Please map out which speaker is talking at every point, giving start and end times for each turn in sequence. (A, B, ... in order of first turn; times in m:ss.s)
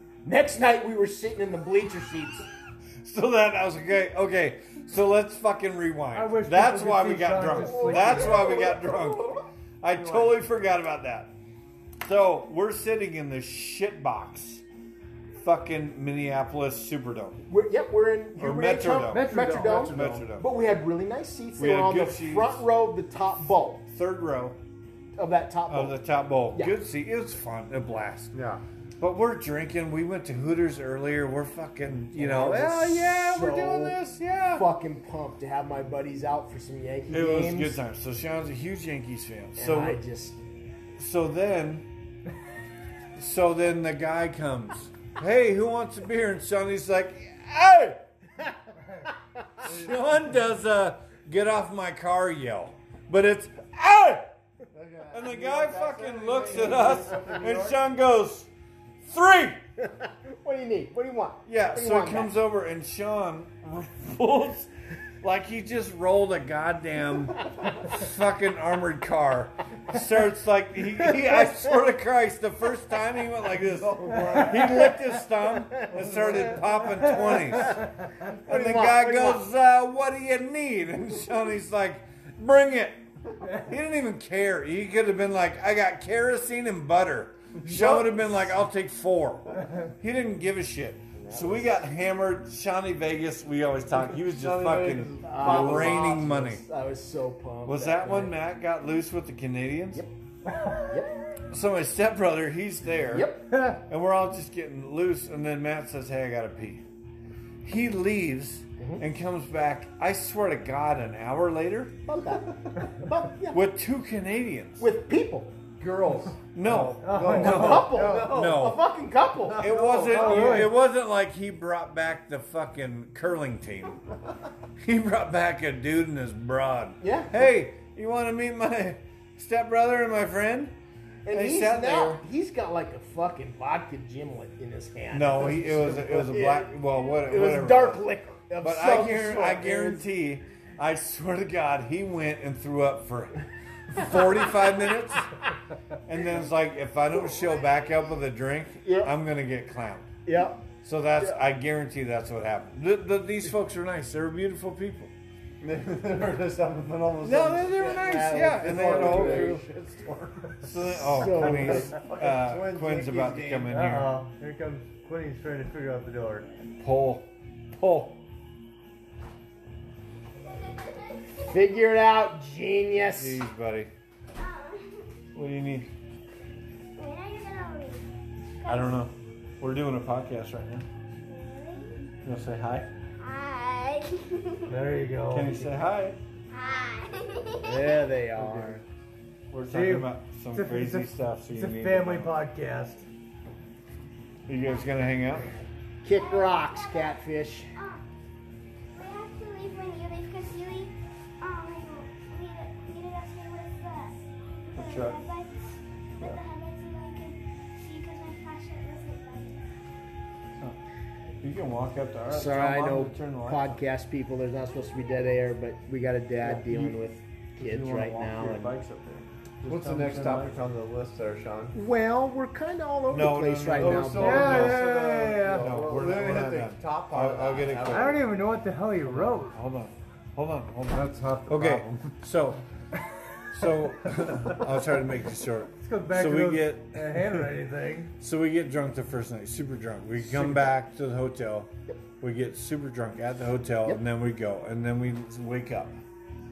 0:00.2-0:02.5 A
0:03.0-0:11.3 B
0:06.1-0:08.4 C
0:07.6-0:08.7 A
0:07.8-0:10.4 D
0:12.0-0:14.6 B
0:15.4-0:17.4 B
0:17.4-0:23.9 A
0:18.4-0:20.5 B
0:19.1-0:20.0 C
0:19.3-0:20.3 D
0:21.6-0:22.7 B
0:23.9-0:24.6 B
0:25.2-0:26.8 A
0:25.7-0:28.3 B
0:28.3-0:28.6 D
0:29.0-0:34.7 B
0:32.1-0:34.0 A
0:34.5-0:37.8 A
0:37.1-0:40.0 B
0:39.6-0:40.4 A
0:41.0-0:41.8 B
0:43.2-0:48.0 B
0:49.6-0:54.3 B
0:49.6-0:50.4 D
0:54.7-0:57.8 D
0:55.1-0:58.5 B
0:59.0-0:59.6 B
0:59.8-1:02.4 A
1:01.4-1:04.7 B
1:05.2-1:17.9 B
1:13.6-1:15.0 D
1:15.7-1:16.4 A
1:15.9-1:17.2 D
1:17.2-1:19.4 A
1:18.4-1:36.6 B
1:27.6-1:28.2 D
1:31.2-1:31.6 A
1:34.0-1:36.3 D
1:35.2-1:38.4 A
1:37.6-1:40.0 B
1:40.8-1:41.1 A
1:41.5-1:46.8 B
1:43.1-1:43.5 A
1:47.6-1:52.0 B
1:48.8-1:49.0 A
1:52.1-1:53.6 A
1:53.5-1:54.9 B
1:54.8-1:55.7 A
1:55.8-1:58.8 D
1:56.4-1:58.8 B
1:57.0-1:58.0 C
1:57.3-2:00.6 A
1:59.4-2:00.7 D
1:59.6-2:04.0 B
2:00.1-2:00.7 C
2:04.8-2:10.7 B
2:07.0-2:07.4 A
2:11.2-2:20.0 A
2:11.3-2:12.2 B
2:15.1-2:18.0 B
2:18.6-2:25.4 B
2:26.0-2:30.1 B
2:27.6-2:28.0 E
2:28.8-2:29.1 A
2:30.2-2:30.6 A
2:30.8-2:35.1 B
2:35.6-2:40.6 D
2:37.2-2:39.7 B
2:37.7-2:39.6 A
2:40.6-2:44.2 B
2:40.8-2:42.0 A
2:41.4-2:43.7 D
2:43.7-2:46.5 C
2:46.8-2:48.2 B
2:50.5-2:51.8 E
2:51.4-2:53.4 A
2:53.2-2:53.9 B
2:54.4-2:55.2 E
2:55.3-2:55.9 B
2:57.0-2:58.0 E
2:58.6-2:59.1 E
2:58.6-3:00.9 B
3:01.3-3:02.0 E
3:02.2-3:02.9 B
3:03.2-3:05.1 E
3:04.7-3:05.7 C
3:05.3-3:06.2 B
3:06.5-3:08.1 E
3:07.6-3:08.8 A
3:08.4-3:08.8 B
3:09.5-3:12.4 B
3:09.7-3:13.0 C
3:14.5-3:15.5 B
3:14.6-3:15.0 E
3:16.0-3:17.7 A
3:16.1-3:18.0 E
3:18.9-3:29.6 E
3:24.7-3:25.2 B
3:31.4-3:33.8 B
3:32.3-3:38.7 A
3:36.4-3:37.0 B
3:37.6-3:40.5 B
3:39.6-3:41.7 D
3:41.7-3:44.6 A
3:43.1-3:48.2 B
3:43.7-3:48.3 D
3:44.2-3:45.6 C
3:47.9-3:49.6 C
3:49.1-3:52.6 B
3:50.9-3:52.1 D
3:53.5-3:57.5 B
3:55.8-3:58.1 C
3:58.2-4:06.0 B
4:00.2-4:00.7 D